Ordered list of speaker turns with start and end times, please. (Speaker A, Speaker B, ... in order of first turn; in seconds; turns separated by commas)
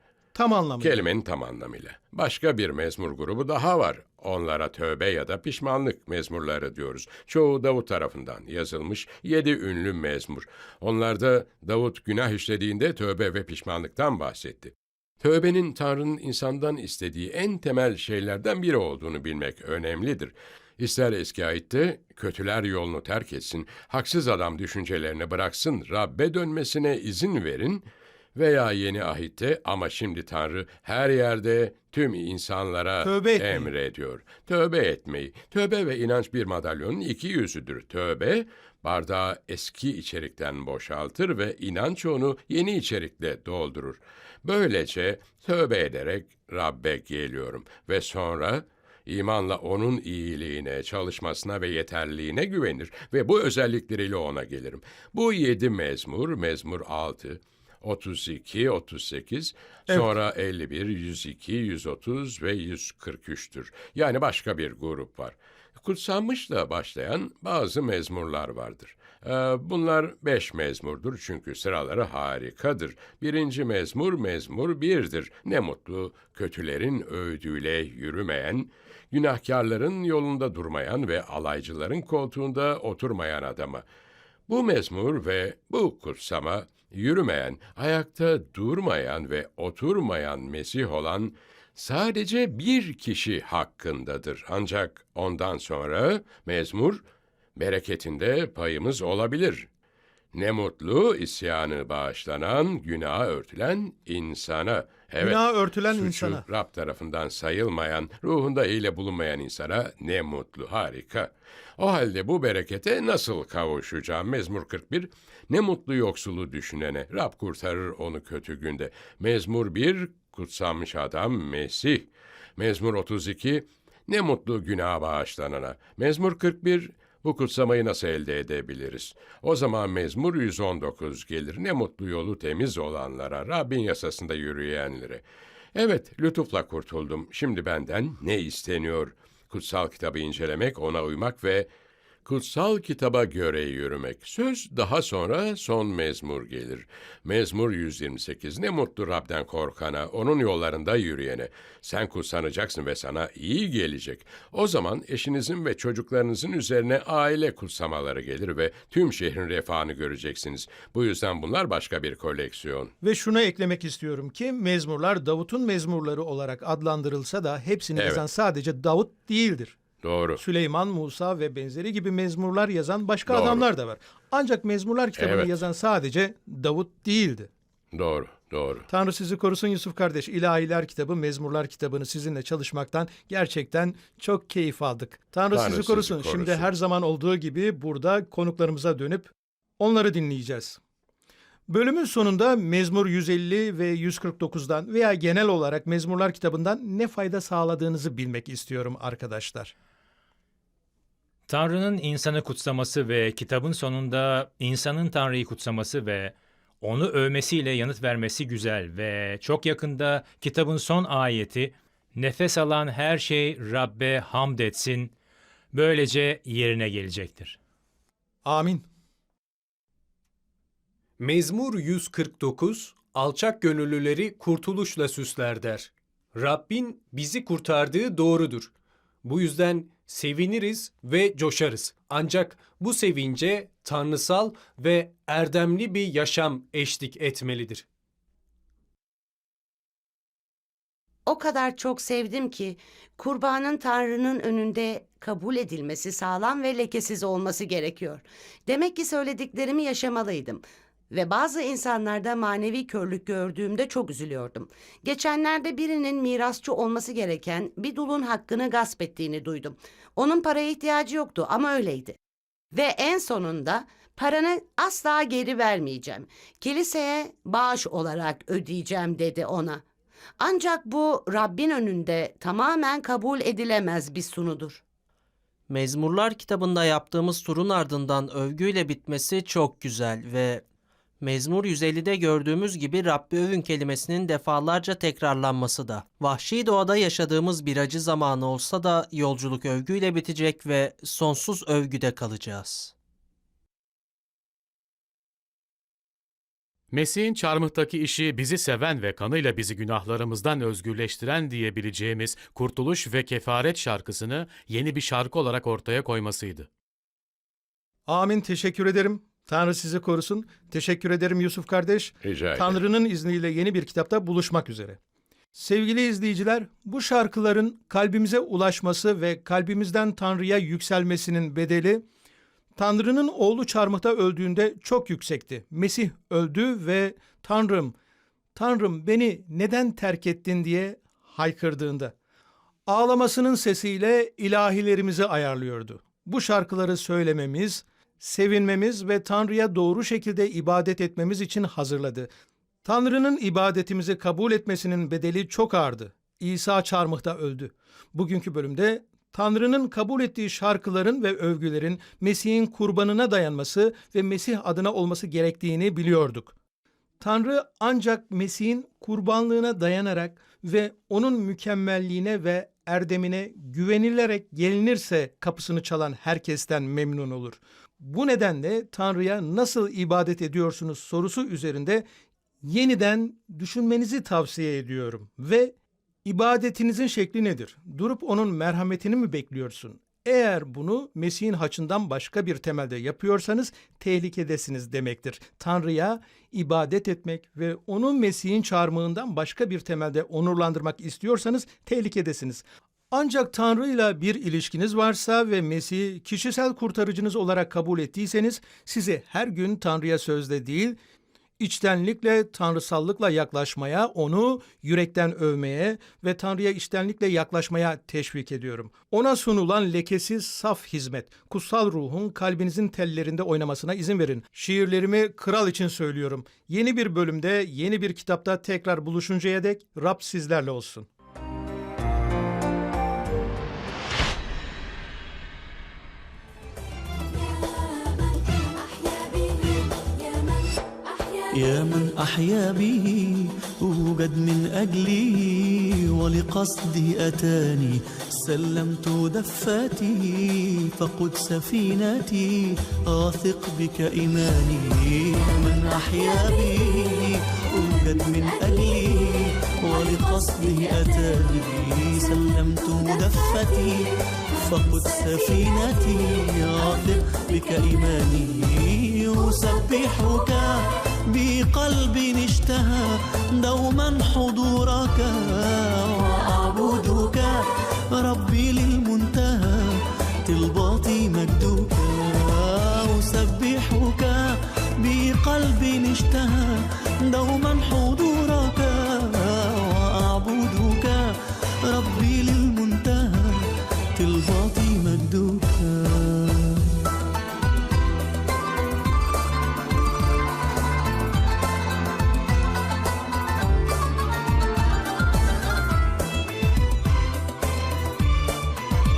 Speaker A: 0.3-1.0, Speaker B: 0.8-83.8, Speaker A: 33.0-33.7, Speaker B: 84.5-97.0, Speaker B: 97.6-99.7, Speaker B: 100.3-135.2, Speaker A: 105.2-106.5, Speaker B: 135.8-141.7, Speaker B: 142.2-162.9, Speaker A: 163.0-169.8, Speaker B: 168.0-168.2, Speaker B: 170.0-170.4, Speaker A: 170.4-177.5, Speaker B: 173.3-173.7, Speaker B: 175.2-175.6, Speaker B: 177.9-178.9, Speaker A: 178.9-190.8, Speaker B: 185.5-186.7, Speaker A: 191.7-199.7, Speaker C: 201.5-215.1, Speaker C: 215.7-217.6, Speaker A: 218.4-218.9, Speaker D: 221.2-228.7, Speaker D: 229.2-237.9, Speaker E: 241.3-262.2, Speaker E: 262.7-269.8, Speaker E: 270.4-274.8, Speaker F: 275.7-280.6, Speaker F: 281.2-292.9, Speaker G: 296.9-306.7, Speaker A: 308.1-315.0, Speaker B: 312.2-312.8, Speaker A: 315.6-322.1, Speaker A: 322.8-327.9, Speaker A: 328.6-332.1, Speaker A: 332.9-342.3, Speaker A: 342.9-356.6, Speaker A: 357.2-372.1, Speaker A: 372.6-401.0, Speaker A: 401.6-421.1, Speaker H: 431.5-467.6, Speaker H: 468.1-481.2, Speaker H: 481.9-486.9